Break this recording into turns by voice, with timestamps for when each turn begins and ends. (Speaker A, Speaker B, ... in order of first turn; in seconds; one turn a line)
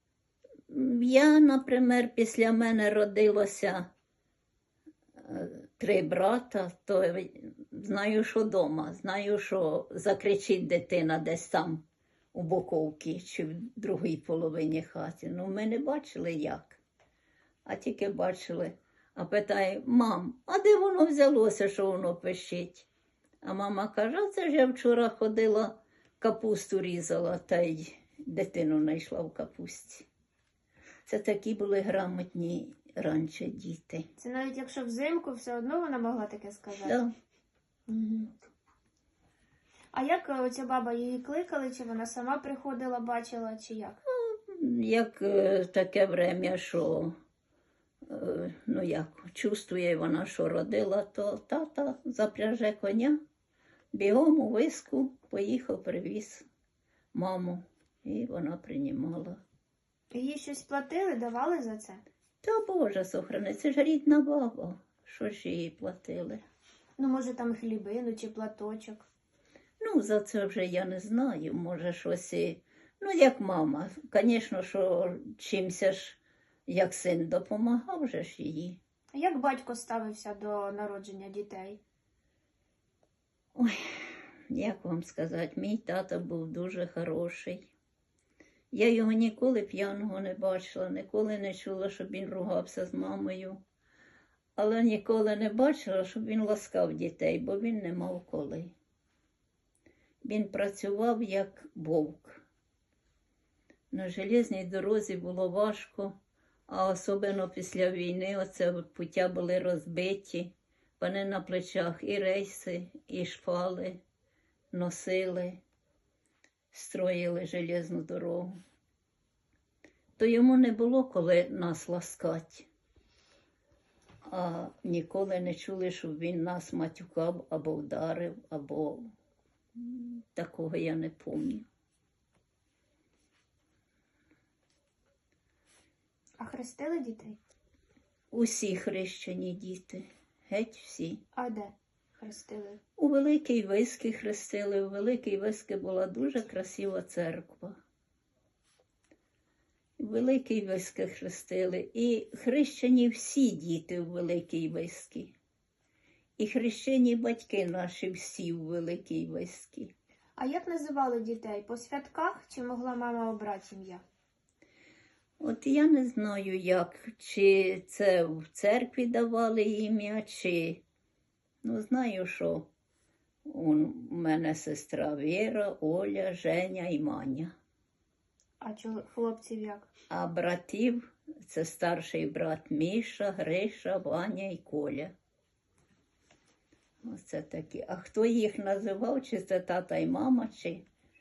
Speaker A: 0.7-3.9
Speaker A: 5.2-16.8
Speaker A: 17.6-22.9
Speaker A: 23.4-30.1
Speaker A: 31.1-34.0
Speaker B: 34.2-37.0
Speaker A: 36.8-37.1
Speaker B: 37.9-38.3
Speaker B: 39.9-44.0
Speaker A: 44.1-47.1
Speaker A: 48.0-53.2
Speaker A: 53.9-56.4
Speaker A: 57.1-59.4
Speaker B: 60.1-62.0
Speaker A: 62.4-66.4
Speaker B: 67.0-69.1
Speaker A: 69.8-78.8
Speaker B: 79.1-81.8
Speaker A: 83.5-87.7
Speaker A: 88.7-93.6
Speaker A: 94.5-98.7
Speaker A: 100.2-102.4
Speaker A: 103.9-106.1
Speaker A: 106.7-114.0
Speaker A: 114.7-115.6
Speaker A: 116.7-118.6
Speaker A: 120.2-122.7
Speaker A: 124.2-129.1
Speaker A: 129.7-131.6
Speaker B: 136.4-137.4
Speaker A: 138.3-141.2
Speaker B: 141.3-142.8
Speaker A: 143.0-147.8
Speaker A: 150.0-155.3
Speaker A: 156.4-159.9
Speaker B: 160.3-164.0
Speaker A: 165.4-170.8
Speaker A: 171.6-172.7
Speaker A: 173.4-177.5
Speaker B: 178.6-179.9
Speaker A: 180.1-185.1
Speaker A: 187.0-190.8